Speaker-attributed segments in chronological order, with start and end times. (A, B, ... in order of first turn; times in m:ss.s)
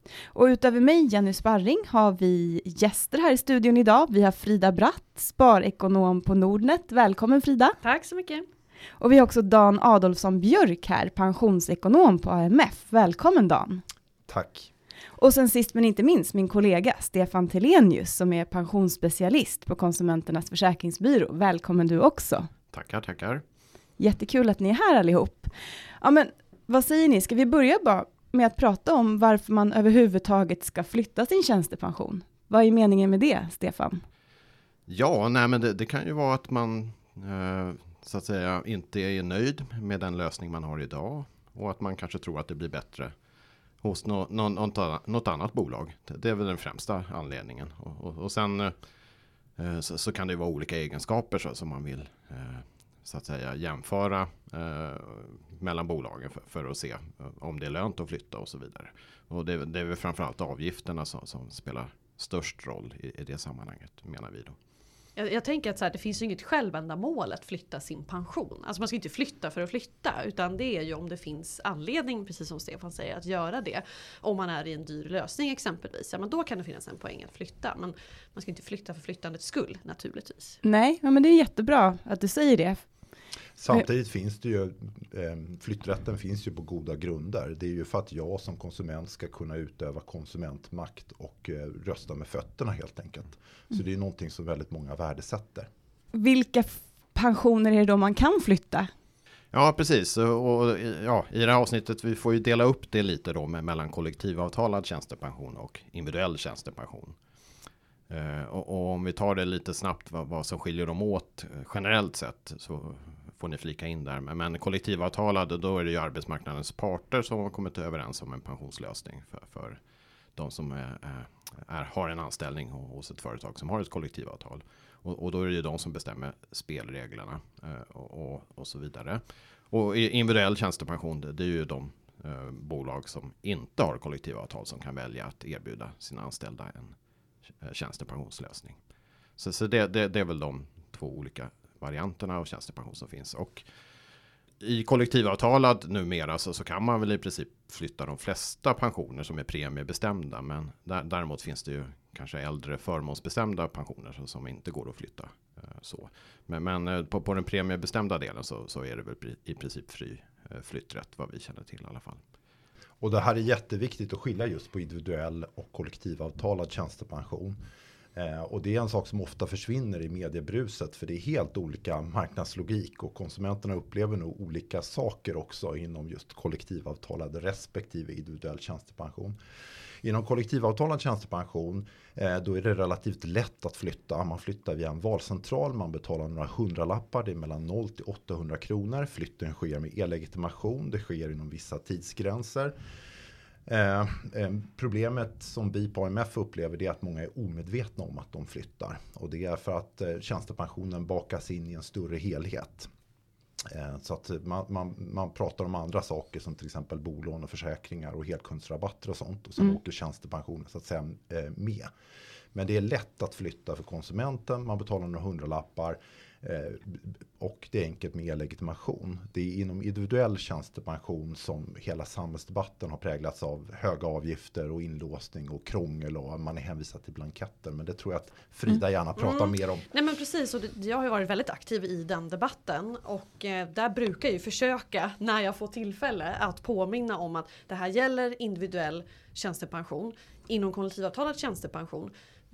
0:00.3-0:07.8 A
0:07.8-0:08.4 B
0:09.0-0:13.8 A
0:14.3-0:14.7 C
0:15.2-0:22.5 A
0:22.7-0:23.4 D
0:24.0-0:34.0 A
0:34.9-0:43.1 D
0:43.8-0:48.7 D
0:49.6-1:04.6 D
1:05.2-1:20.6 B
1:20.6-1:22.8 A
1:23.6-1:35.7 C
1:36.1-1:38.9 A
1:39.5-1:47.2 D
1:48.1-1:59.8 D
2:00.4-2:16.9 D
2:17.6-2:18.8 D
2:19.4-2:23.6 D
2:24.6-2:42.2 D
2:43.0-2:47.6 C
2:48.1-2:59.4 C
3:00.0-3:12.7 C
3:13.7-3:22.9 C
3:23.6-3:31.9 C
3:32.5-3:49.8 C
3:49.2-4:02.1 B